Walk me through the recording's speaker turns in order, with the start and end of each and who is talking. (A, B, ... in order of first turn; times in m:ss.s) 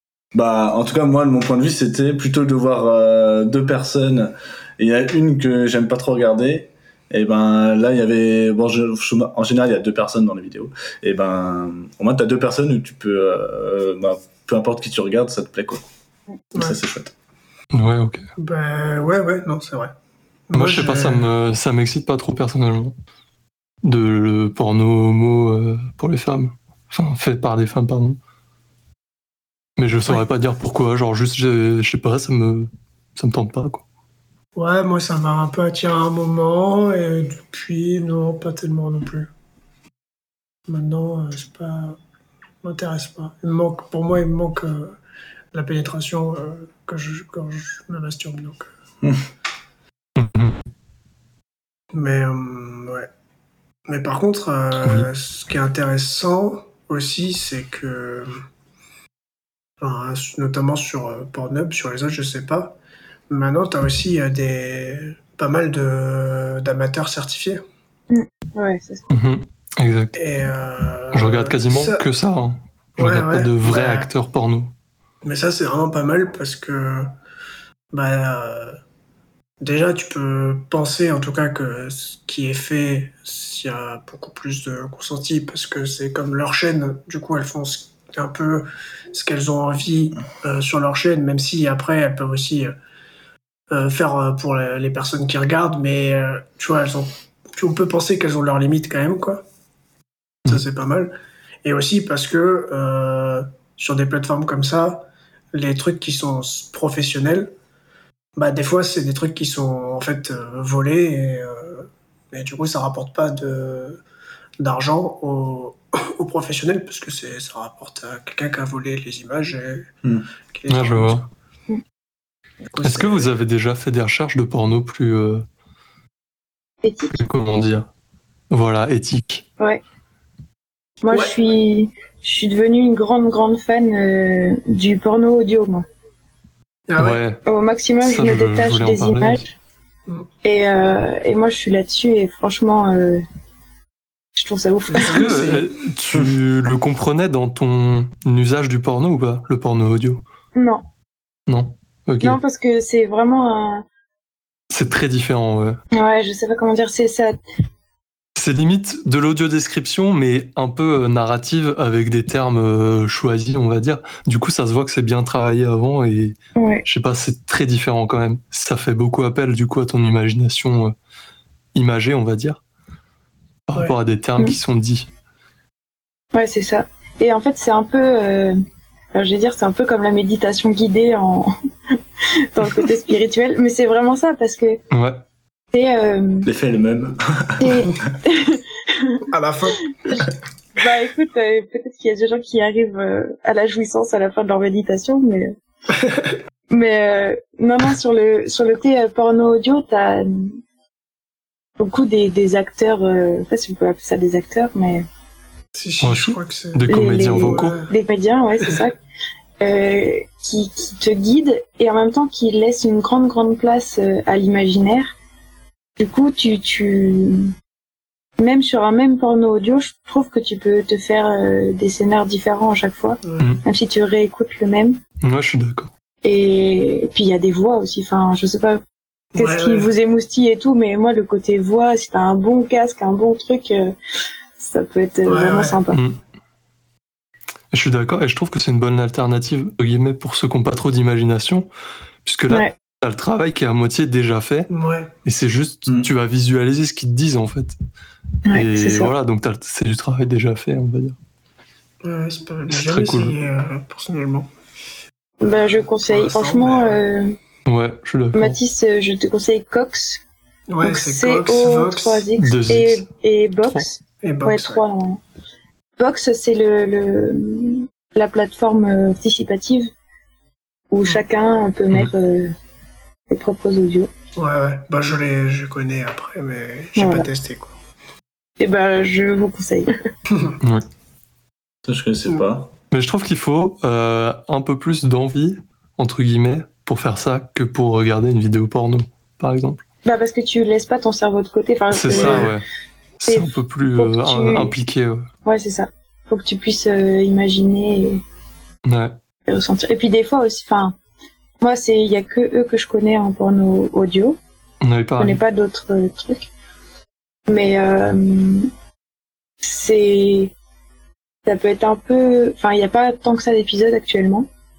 0:00.3-0:15.8 A
0:16.5-0:17.1 A
0:17.7-0:18.3 B
0:18.4-0:19.9 C
0:20.5-0:21.3 C
0:20.5-0:23.0 B
0:23.8-0:28.2 B
0:29.8-0:33.8 B
0:34.6-0:39.3 C
0:40.7-0:42.0 C
0:42.6-0:45.0 C
0:45.5-0:48.7 C
0:50.2-0:50.6 B
0:51.9-0:53.1 C
0:53.9-0:58.4 C
0:54.8-0:55.1 B
0:59.8-1:02.8 C
1:03.3-1:07.6 C
1:08.1-1:09.0 D
1:09.1-1:10.2 B
1:10.2-1:12.0 C
1:11.1-1:14.7 B
1:13.0-1:14.1 C
1:15.2-1:17.1 C
1:17.9-1:18.8 C
1:19.6-1:32.7 C
1:33.7-1:39.4 C
1:40.5-1:47.5 C
1:48.4-1:54.0 C
1:54.6-1:59.9 C
2:00.5-2:01.3 C
2:00.7-2:01.2 B
2:02.7-2:03.3 C
2:02.8-2:05.4 B
2:06.8-2:07.2 D
2:07.1-2:07.9 B
2:08.5-2:09.5 B
2:11.0-2:15.8 D
2:11.1-2:11.4 C
2:16.9-2:17.2 C
2:17.0-2:17.4 B
2:17.4-2:19.5 D
2:18.0-2:19.4 B
2:20.4-2:23.2 D
2:24.4-2:25.4 D
2:24.9-2:25.7 C
2:25.0-2:30.2 B
2:30.6-2:30.8 D
2:31.5-2:32.4 B
2:32.2-2:33.8 D
2:34.7-2:35.8 B
2:35.9-2:37.4 D
2:38.4-2:51.0 B
2:46.6-2:46.8 D
2:51.8-2:52.6 B
2:53.7-2:55.1 B
2:56.3-2:58.6 D
2:59.1-3:01.5 D
3:02.4-3:04.8 D
3:04.9-3:05.2 B
3:05.7-3:06.5 D
3:06.5-3:07.9 A
3:07.6-3:09.3 D
3:09.3-3:10.2 C
3:09.9-3:15.5 D
3:16.0-3:16.3 C
3:16.7-3:20.6 D
3:21.8-3:25.1 D
3:25.7-3:27.9 C
3:26.0-3:27.8 B
3:26.9-3:29.0 D
3:29.6-3:35.2 D
3:36.0-3:37.5 D
3:38.4-3:45.0 D
3:43.2-3:43.6 C
3:45.2-3:45.9 B
3:46.2-3:48.8 D
3:49.3-3:49.9 C
3:49.4-3:54.0 D
3:54.6-3:56.0 D
3:55.3-3:55.8 C
3:55.9-3:56.2 B
3:57.7-4:01.7 B
4:02.2-4:04.7 B
4:04.7-4:05.1 C
4:05.2-4:07.8 B
4:08.5-4:09.1 D
4:08.5-4:11.2 B
4:12.0-4:14.5 C
4:12.7-4:13.4 B
4:15.4-4:17.4 D
4:16.1-4:17.0 C
4:17.7-4:18.6 B
4:18.3-4:20.2 D
4:20.7-4:22.3 C
4:20.8-4:25.2 D
4:22.4-4:23.1 B
4:24.2-4:24.8 C
4:26.0-4:29.9 D
4:30.9-4:32.5 D
4:33.3-4:34.1 D
4:34.4-4:37.7 C
4:37.0-4:37.3 D
4:38.6-4:40.0 D
4:40.3-4:40.6 C
4:41.9-4:42.7 A
4:42.9-4:49.8 B
4:50.0-4:52.5 D
4:51.9-4:52.6 B
4:52.1-4:52.5 C
4:53.2-4:55.3 B
4:53.3-4:54.7 D
4:55.4-4:58.2 D
4:58.9-4:59.2 B
4:59.5-5:01.0 D
5:01.6-5:04.4 D
5:04.8-5:05.4 B
5:05.2-5:06.5 D
5:07.5-5:08.7 D
5:09.6-5:10.5 D
5:11.5-5:14.5 D